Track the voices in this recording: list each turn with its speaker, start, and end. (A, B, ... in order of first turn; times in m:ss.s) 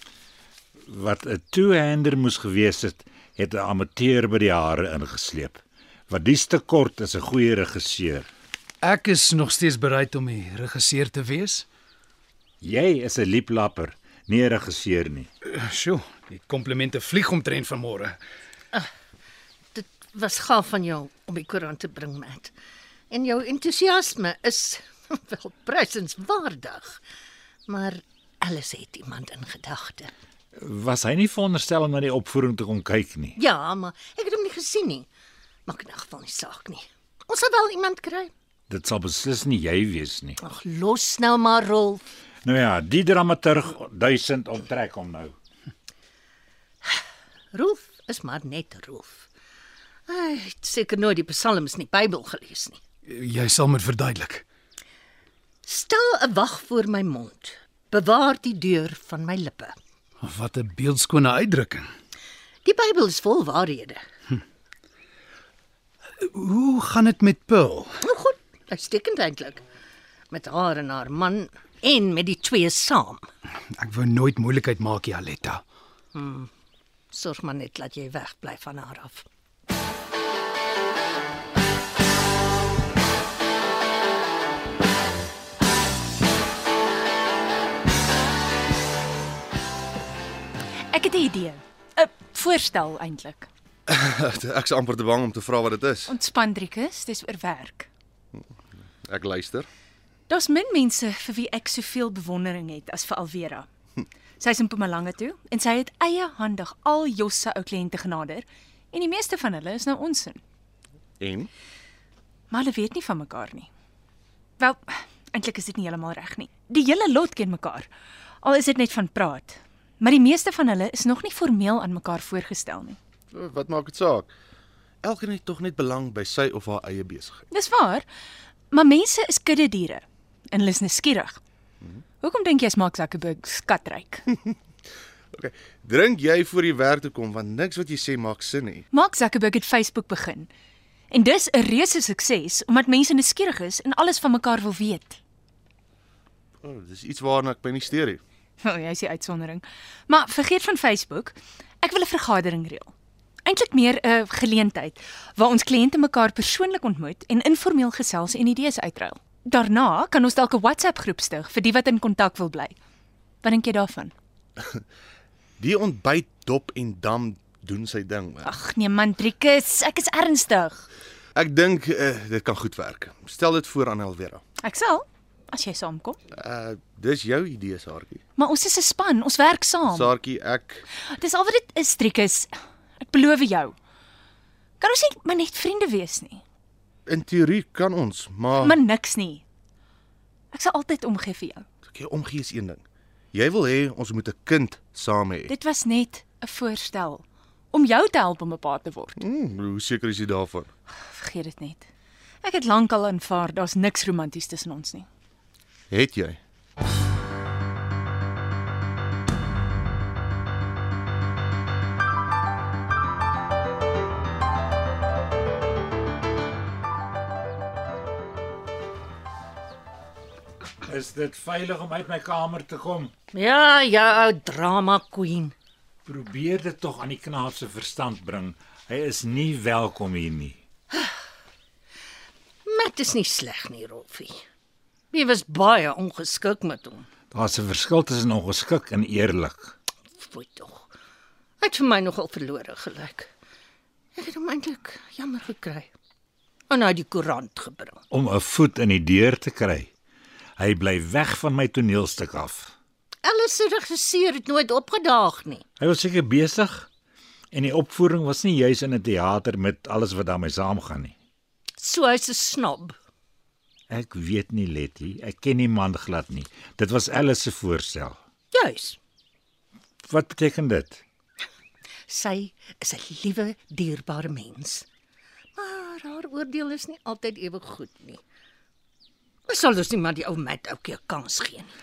0:00.9-0:08.3 A
0:08.9-0:11.6 B
0:12.6-0:15.3 A
0:15.8-0:18.1 B
0:19.7-0:22.5 C
0:23.1-0:27.0 C
0:27.7-0:30.1 C
0:30.6-0:33.4 A
0:33.4-0:35.1 C
0:35.7-0:38.3 C
0:38.7-0:40.4 A
0:40.4-0:42.0 C
0:42.4-0:45.4 A
0:47.5-0:49.3 C
0:50.1-0:52.8 C
0:53.2-0:54.4 B
0:55.6-0:59.7 C
1:00.3-1:01.8 B
1:02.6-1:04.0 C
1:06.4-1:07.8 B
1:08.0-1:09.6 C
1:10.3-1:13.3 C
1:13.8-1:15.6 B
1:16.1-1:16.5 C
1:17.1-1:19.2 C
1:30.9-1:33.5 D
1:33.9-1:36.1 E
1:36.1-1:37.9 D
1:39.0-1:39.7 E
1:40.3-1:43.7 D
1:44.4-1:50.4 D
1:51.2-1:51.5 E
1:52.5-1:53.7 D
1:54.6-1:57.9 D
1:58.4-2:03.0 D
2:03.3-2:04.3 E
2:05.0-2:07.5 E
2:07.5-2:08.1 D
2:08.7-2:11.4 D
2:12.2-2:14.3 D
2:15.3-2:18.9 E
2:18.9-2:20.5 D
2:21.1-2:25.2 D
2:26.6-2:28.2 E
2:28.6-2:32.9 D
2:33.5-2:42.8 D
2:43.4-2:44.1 D
2:45.6-2:48.5 E
2:48.4-2:50.9 D
2:51.4-2:54.4 E
2:54.6-2:56.2 D
2:56.3-2:58.2 E
2:58.4-3:00.1 D
2:59.9-3:00.8 E
3:01.1-3:03.8 D
3:04.8-3:06.4 D
3:07.1-3:08.8 E
3:08.6-3:09.4 D
3:10.5-3:11.7 D
3:11.9-3:15.5 E
3:15.5-3:19.2 D
3:19.2-3:20.7 E
3:21.1-3:21.9 D
3:22.4-3:25.1 D
3:25.9-3:26.4 E
3:40.8-3:43.1 A
3:43.3-3:45.5 C
3:46.0-3:50.6 A
3:52.6-3:54.4 C
3:55.1-3:57.1 C
3:57.3-3:59.7 A
4:00.2-4:00.9 C
4:01.6-4:03.3 C
4:04.2-4:05.9 C
4:06.7-4:08.0 C
4:08.1-4:09.9 A
4:10.6-4:12.7 A
4:13.2-4:15.6 C
4:15.8-4:16.9 A
4:17.5-4:21.2 A
4:21.8-4:23.0 C
4:23.9-4:28.2 A
4:28.5-4:29.0 C
4:30.1-4:31.0 A
4:32.1-4:34.8 C
4:35.6-4:38.2 C
4:39.5-4:41.7 C